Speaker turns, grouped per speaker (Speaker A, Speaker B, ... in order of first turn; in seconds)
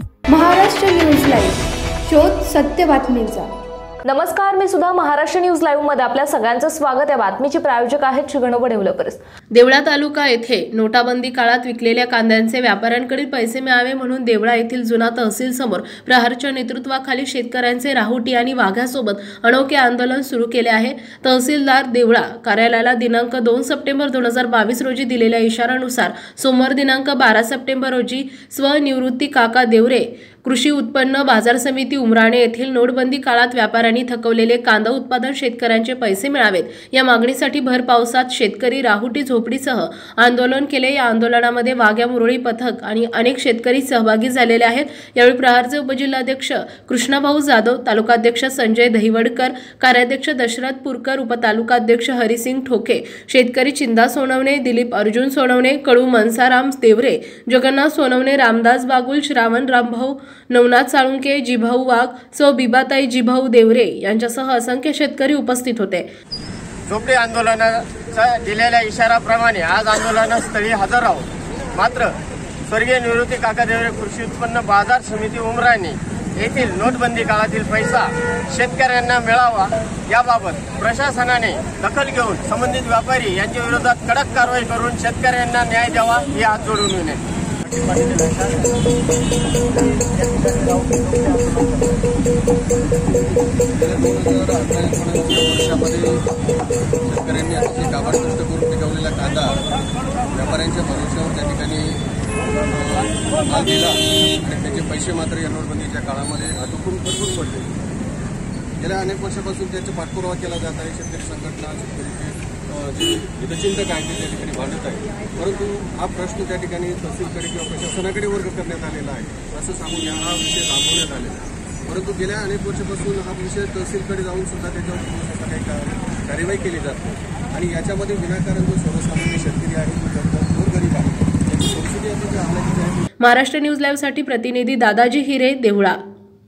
Speaker A: 0.3-3.5
Speaker B: 4.0-9.2
Speaker C: 9.5-66.1, 133.2-136.0
Speaker D: 66.9-87.2
Speaker E: 93.6-96.2, 97.1-99.6, 100.3-102.0, 102.7-107.8, 108.8-133.1